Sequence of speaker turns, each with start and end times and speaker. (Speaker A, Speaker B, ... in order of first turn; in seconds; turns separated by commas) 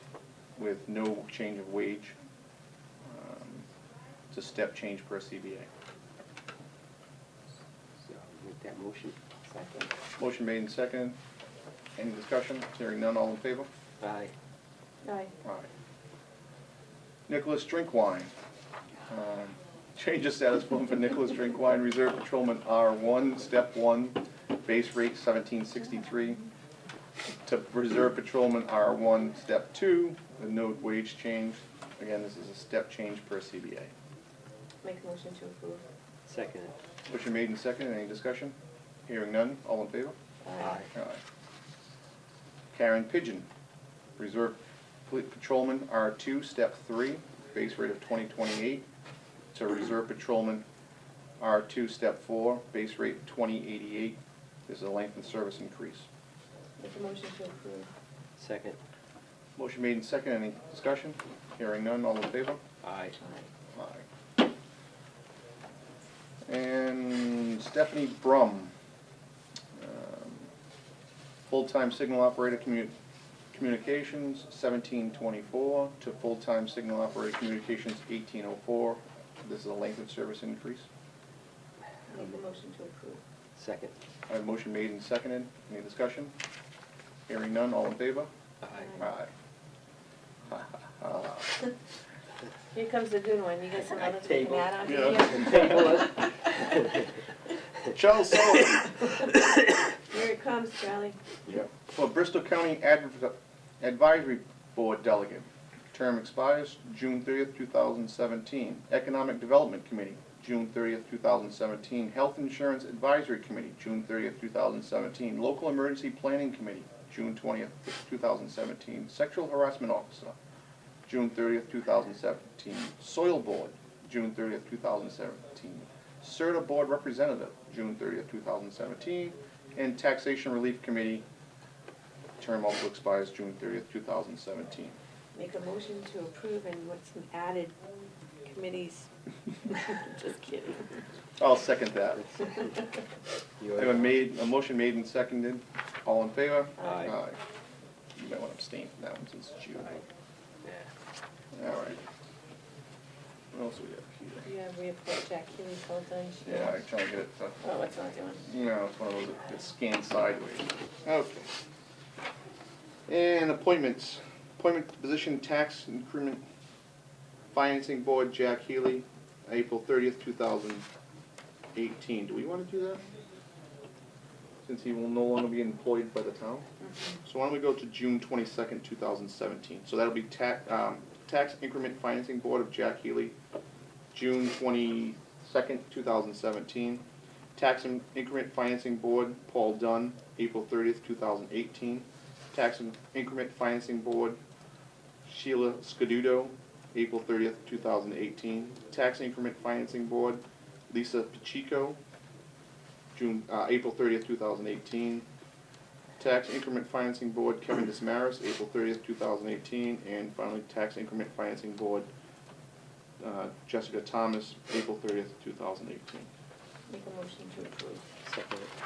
Speaker A: 0.6-2.2, Speaker A: 3.0-3.7, Speaker A: 4.3-5.7, Speaker B: 8.0-9.2, Speaker C: 9.5-9.9, Speaker A: 10.2-11.2, Speaker A: 12.0-13.7, Speaker B: 14.0-14.3, Speaker C: 15.0-15.3, Speaker A: 15.4-15.7, Speaker A: 17.3-18.3, Speaker A: 19.1-26.4, Speaker A: 27.4-33.9, Speaker C: 34.8-35.8, Speaker B: 36.3-36.8, Speaker A: 37.1-38.6, Speaker A: 39.1-40.2, Speaker C: 40.4-40.9, Speaker B: 40.6-40.9, Speaker A: 40.9-41.2, Speaker A: 42.7-43.5, Speaker A: 44.2-48.9, Speaker A: 49.5-50.6, Speaker A: 51.4-56.1, Speaker C: 56.8-57.9, Speaker B: 58.4-58.8, Speaker A: 59.6-62.6, Speaker B: 62.8-63.2, Speaker C: 63.2-63.5, Speaker A: 63.7-64.0, Speaker A: 66.5-68.7, Speaker A: 69.8-70.5, Speaker A: 71.5-72.9, Speaker A: 73.5-80.9, Speaker C: 82.1-83.2, Speaker B: 82.1-82.4, Speaker B: 83.6-84.0, Speaker A: 84.3-86.3, Speaker A: 87.3-88.3, Speaker B: 88.6-89.0, Speaker C: 88.7-89.1, Speaker A: 89.0-89.3, Speaker A: 90.5-91.6, Speaker C: 92.7-96.7, Speaker B: 93.8-97.0, Speaker A: 94.8-95.7, Speaker A: 97.9-99.2, Speaker C: 100.1-101.2, Speaker A: 101.9-120.3, Speaker A: 121.1-131.2, Speaker A: 132.4-135.0, Speaker C: 135.3-137.8, Speaker C: 138.4-139.1, Speaker C: 139.6-141.1, Speaker A: 141.4-142.3, Speaker B: 142.2-142.8, Speaker B: 143.6-144.2, Speaker A: 143.8-147.4, Speaker C: 146.8-147.2, Speaker B: 146.8-147.2, Speaker A: 148.2-150.0, Speaker A: 151.5-152.0, Speaker A: 153.5-154.5, Speaker C: 154.4-156.8, Speaker A: 156.4-157.7, Speaker C: 157.6-158.5, Speaker A: 158.4-161.5, Speaker A: 163.1-166.4, Speaker A: 167.5-170.9, Speaker A: 171.8-173.0, Speaker A: 174.6-176.7, Speaker C: 176.8-177.2, Speaker A: 177.2-183.3, Speaker A: 184.1-187.0, Speaker A: 187.6-194.4, Speaker A: 195.2-202.0, Speaker A: 203.1-205.3, Speaker A: 206.2-212.1, Speaker A: 213.2-216.3, Speaker C: 216.9-218.0, Speaker B: 218.2-218.7